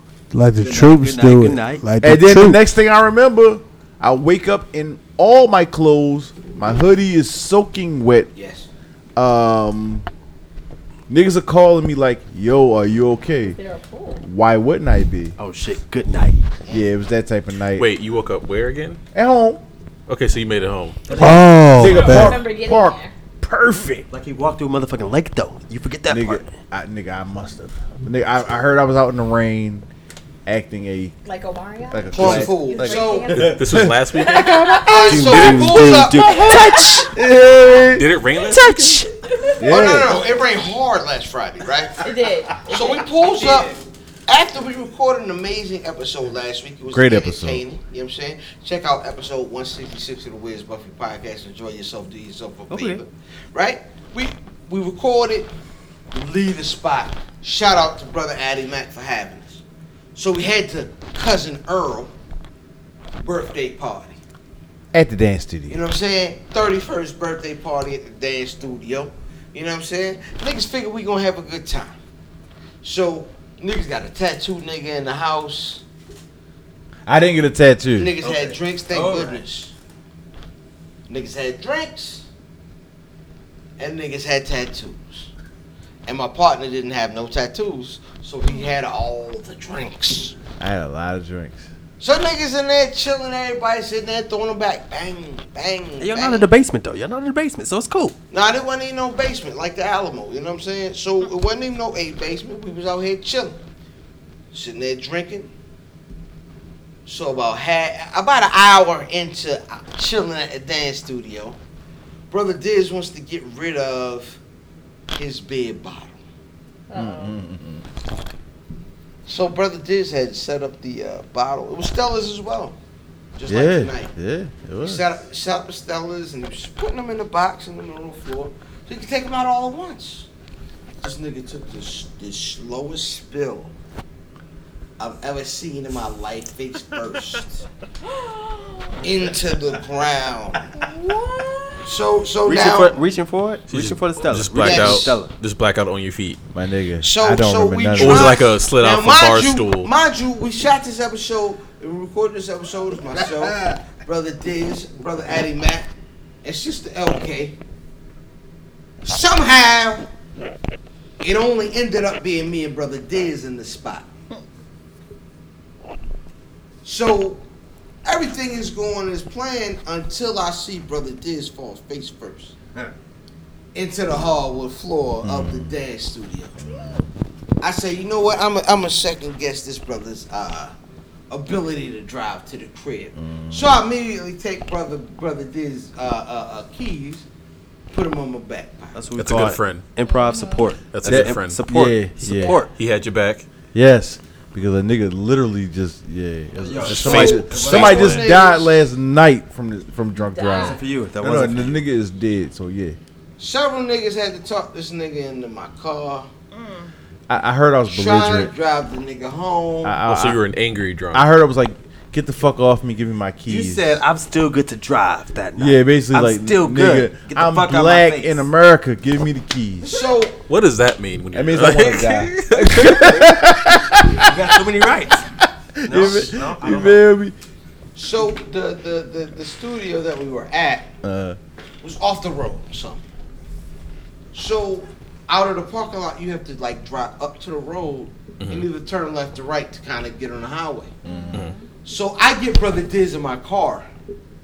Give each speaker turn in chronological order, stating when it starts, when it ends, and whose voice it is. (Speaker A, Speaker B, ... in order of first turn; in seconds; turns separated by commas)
Speaker A: 0.3-2.6, Speaker B: 0.6-1.9, Speaker C: 2.0-8.3, Speaker D: 8.3-8.7, Speaker C: 9.2-10.1, Speaker C: 11.1-13.6, Speaker E: 13.4-14.2, Speaker C: 14.2-15.3, Speaker B: 15.4-16.4, Speaker C: 16.7-17.9, Speaker F: 17.8-19.0, Speaker C: 19.1-19.6, Speaker F: 20.1-21.0, Speaker B: 21.1-21.9, Speaker A: 21.2-22.4, Speaker C: 21.8-24.1, Speaker E: 21.8-23.1, Speaker B: 24.1-26.5, Speaker C: 26.1-29.9, Speaker C: 30.4-31.1, Speaker E: 31.2-35.1, Speaker C: 31.9-38.1, Speaker D: 32.1-33.5, Speaker F: 33.4-35.9, Speaker D: 34.8-37.0, Speaker B: 35.1-37.1, Speaker E: 36.4-37.0, Speaker F: 37.9-39.0, Speaker B: 38.6-39.1, Speaker E: 39.2-40.1, Speaker C: 39.6-40.2, Speaker D: 39.6-42.0, Speaker E: 42.0-43.1, Speaker D: 42.7-43.7, Speaker B: 43.2-43.8, Speaker D: 44.3-55.5, Speaker C: 46.9-47.6, Speaker B: 52.7-53.0, Speaker D: 56.1-59.6, Speaker D: 60.1-62.1, Speaker D: 63.2-64.2, Speaker C: 64.9-65.8, Speaker D: 65.7-72.0, Speaker D: 72.8-75.8, Speaker C: 77.0-78.1, Speaker D: 78.0-79.7, Speaker B: 78.2-79.4, Speaker D: 81.1-82.2, Speaker D: 83.8-85.3, Speaker D: 86.0-90.3, Speaker C: 90.6-91.7, Speaker D: 92.0-96.5, Speaker B: 96.0-98.2, Speaker D: 98.3-103.6, Speaker D: 104.5-105.5, Speaker D: 107.0-111.6, Speaker D: 112.3-114.4, Speaker D: 115.1-116.2, Speaker E: 116.9-117.4, Speaker C: 116.9-117.8, Speaker D: 119.2-122.8, Speaker D: 123.3-124.1, Speaker C: 123.5-125.1, Speaker D: 124.8-130.3, Speaker D: 131.0-133.7, Speaker D: 135.0-137.6, Speaker E: 138.1-138.9, Speaker D: 139.0-140.6, Speaker E: 140.7-141.9, Speaker D: 141.8-143.0, Speaker B: 142.4-145.3, Speaker F: 143.7-146.4, Speaker D: 144.6-145.2, Speaker C: 146.5-148.4, Speaker D: 147.0-155.9, Speaker F: 147.9-149.9, Speaker D: 156.4-157.6, Speaker D: 159.0-160.1, Speaker D: 161.2-164.1, Speaker D: 166.8-167.4, Speaker D: 168.0-172.5, Speaker D: 173.7-176.6, Speaker C: 175.2-175.8, Speaker C: 176.6-177.1, Speaker D: 177.6-180.7, Speaker D: 181.3-187.2, Speaker C: 183.1-183.8, Speaker D: 187.9-189.0, Speaker B: 188.9-192.7, Speaker F: 189.2-189.8, Speaker E: 190.0-190.6, Speaker F: 190.9-191.6, Speaker C: 191.1-192.6, Speaker F: 192.5-193.4, Speaker C: 193.7-203.0, Speaker B: 196.5-198.3, Speaker F: 196.8-198.1, Speaker D: 197.0-198.7, Speaker E: 200.2-200.8, Speaker B: 200.5-201.8, Speaker D: 203.4-206.3, Speaker C: 207.3-208.5, Speaker D: 207.9-209.9, Speaker C: 209.8-210.4, Speaker F: 210.1-211.3, Speaker C: 211.1-214.0, Speaker B: 213.5-218.5, Speaker C: 215.6-219.9, Speaker D: 219.8-220.4, Speaker F: 220.5-223.3, Speaker C: 221.3-224.6, Speaker B: 224.2-225.2, Speaker C: 225.4-227.3, Speaker B: 225.8-227.0, Speaker D: 227.9-230.9, Speaker C: 231.0-231.4, Speaker D: 231.8-233.0, Speaker D: 234.3-241.0, Speaker F: 238.4-238.7, Speaker C: 241.0-241.5, Speaker E: 241.1-241.6, Speaker D: 241.8-243.8